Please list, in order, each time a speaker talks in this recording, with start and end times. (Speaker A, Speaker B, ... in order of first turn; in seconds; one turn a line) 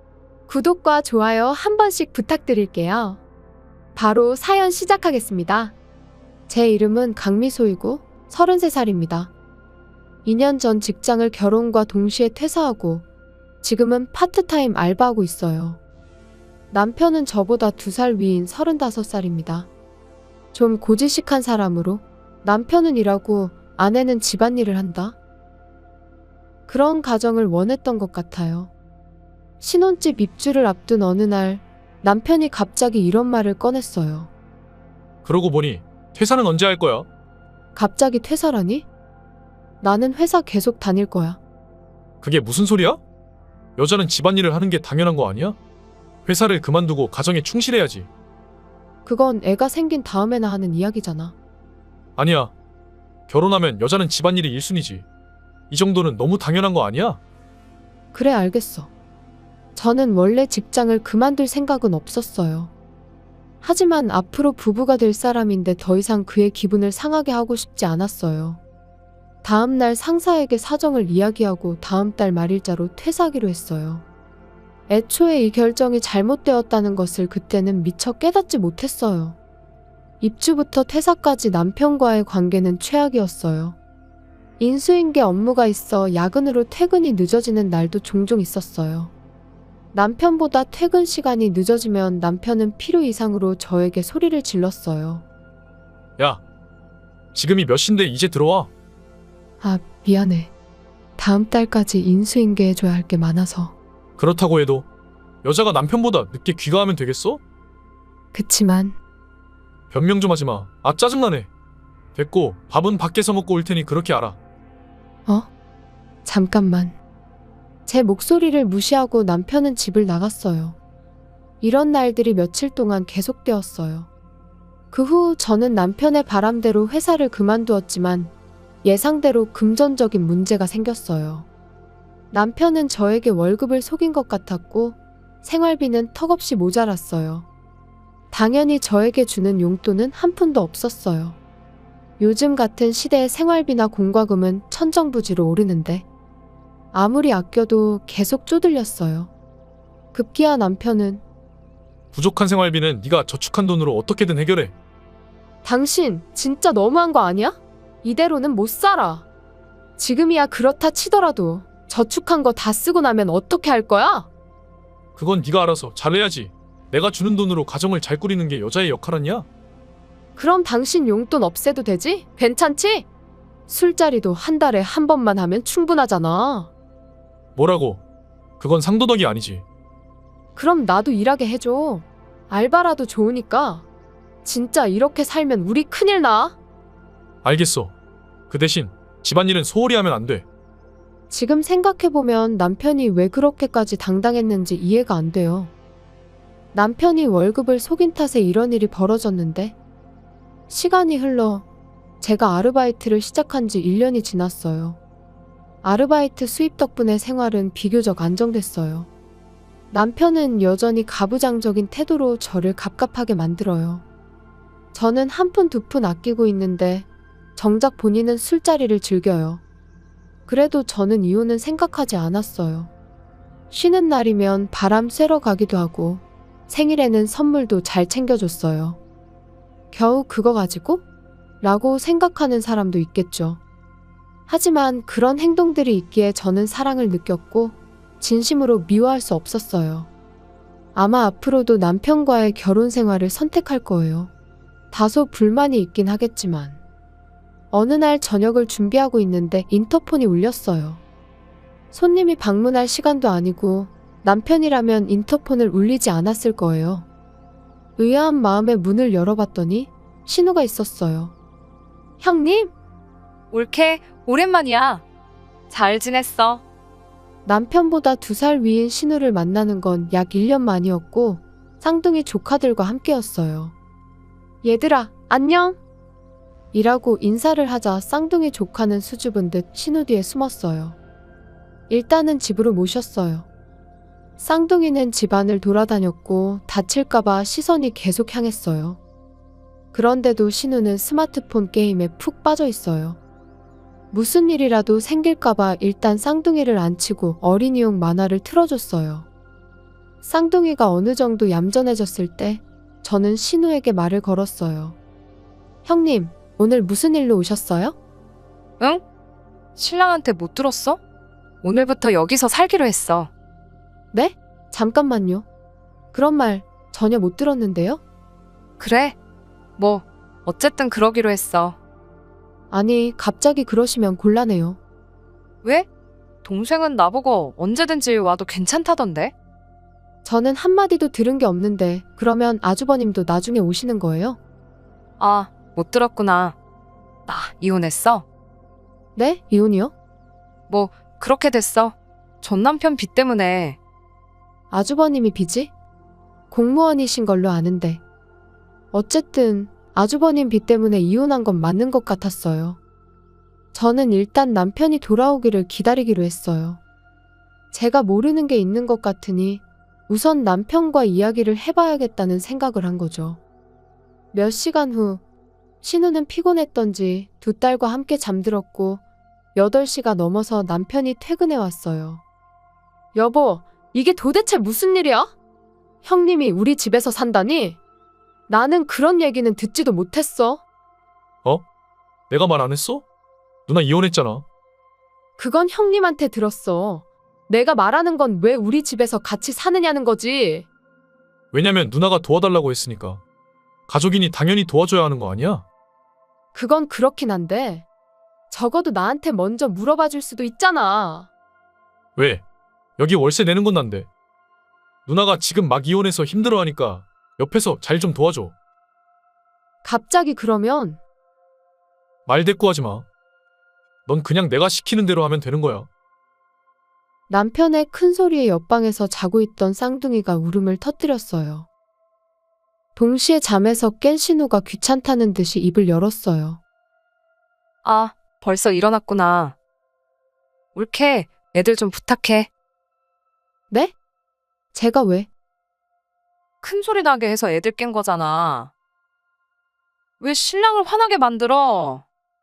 Speaker A: 0.5-3.2
Speaker A: 3.9-5.8
Speaker A: 6.5-9.3
Speaker A: 10.2-13.0
Speaker A: 13.6-15.8
Speaker A: 16.7-19.7
Speaker A: 20.5-25.2
Speaker A: 26.7-28.7
Speaker A: 29.6-34.3
Speaker B: 35.2-37.1
Speaker A: 37.7-38.9
Speaker A: 39.8-41.4
Speaker B: 42.2-43.0
Speaker B: 43.8-45.6
Speaker B: 46.2-48.1
Speaker A: 49.0-51.3
Speaker B: 52.1-52.5
Speaker B: 53.3-55.0
Speaker B: 55.7-57.2
Speaker A: 58.1-58.9
Speaker A: 59.7-62.7
Speaker A: 63.6-68.6
Speaker A: 69.4-74.0
Speaker A: 74.9-79.4
Speaker A: 80.2-83.8
Speaker A: 84.6-89.1
Speaker A: 89.9-95.2
Speaker B: 96.2-96.4
Speaker B: 97.3-98.7
Speaker A: 99.6-100.5
Speaker A: 101.2-103.7
Speaker B: 104.2-104.9
Speaker B: 105.4-107.4
Speaker A: 108.3-109.0
Speaker B: 109.9-111.5
Speaker B: 112.1-114.4
Speaker A: 116.2-117.0
Speaker A: 117.8-120.8
Speaker A: 121.6-124.1
Speaker A: 124.9-128.3
Speaker A: 128.8-131.5
Speaker A: 132.3-137.5
Speaker A: 138.3-141.4
Speaker A: 142.2-146.1
Speaker A: 146.9-149.3
Speaker A: 150.1-151.2
Speaker B: 152.1-154.7
Speaker A: 155.6-159.2
Speaker A: 160.0-164.3
Speaker B: 165.2-169.5
Speaker A: 170.3-173.1
Speaker A: 173.7-176.7
Speaker B: 177.5-178.0
Speaker B: 178.6-179.6
Speaker A: 180.6-183.8
Speaker A: 184.4-186.6
Speaker B: 187.4-187.9
Speaker B: 188.5-190.4
Speaker A: 191.3-195.7
Speaker A: 196.7-199.8
Speaker A: 200.7-201.7
Speaker A: 202.2-205.0
Speaker A: 205.8-209.1
Speaker A: 209.9-214.0
Speaker A: 214.9-219.6
Speaker A: 220.5-222.9
Speaker A: 223.7-229.0
Speaker A: 229.9-231.0
Speaker A: 231.6-233.6
Speaker A: 234.5-240.1
Speaker A: 240.9-244.3
Speaker A: 244.9-246.8
Speaker A: 247.7-251.0
Speaker A: 251.9-257.1
Speaker A: 258.0-261.3
Speaker A: 262.2-262.7
Speaker C: 263.5-265.0
Speaker C: 265.7-266.6
Speaker A: 267.4-273.7
Speaker A: 274.6-275.8
Speaker A: 276.7-281.0
Speaker A: 281.9-283.5
Speaker A: 284.4-289.0
Speaker A: 289.9-293.2
Speaker A: 294.1-299.3
Speaker A: 300.2-305.0
Speaker A: 305.8-307.9
Speaker C: 309.7-311.0
Speaker C: 311.6-313.3
Speaker A: 314.1-315.5
Speaker A: 316.1-318.0
Speaker C: 318.8-319.1
Speaker C: 319.8-321.8
Speaker A: 322.7-324.8
Speaker C: 325.6-325.9
Speaker C: 326.4-329.3
Speaker A: 330.2-334.4
Speaker C: 335.2-336.6
Speaker C: 337.3-338.2
Speaker A: 339.1-339.9
Speaker C: 340.7-343.8
Speaker A: 344.7-345.7
Speaker A: 346.5-348.0
Speaker A: 348.9-352.8
Speaker A: 353.7-356.8
Speaker A: 357.7-363.4
Speaker A: 364.3-365.2
Speaker A: 365.8-369.0
Speaker A: 369.5-372.2
Speaker A: 373.1-375.3
Speaker A: 376.0-377.8
Speaker A: 378.5-380.6
Speaker B: 382.3-383.1
Speaker B: 383.7-384.4
Speaker A: 385.4-390.7
Speaker B: 391.5-393.2
Speaker B: 393.9-395.6
Speaker A: 396.5-397.9
Speaker A: 398.5-401.3
Speaker B: 402.1-402.4
Speaker B: 403.0-404.1
Speaker B: 405.1-408.6
Speaker A: 409.8-411.0
Speaker B: 412.2-413.1
Speaker B: 414.1-415.9
Speaker A: 417.3-421.7
Speaker A: 422.9-426.6
Speaker C: 427.8-429.6
Speaker C: 430.7-432.5
Speaker A: 434.7-435.3
Speaker C: 436.6-438.7
Speaker C: 440.2-442.0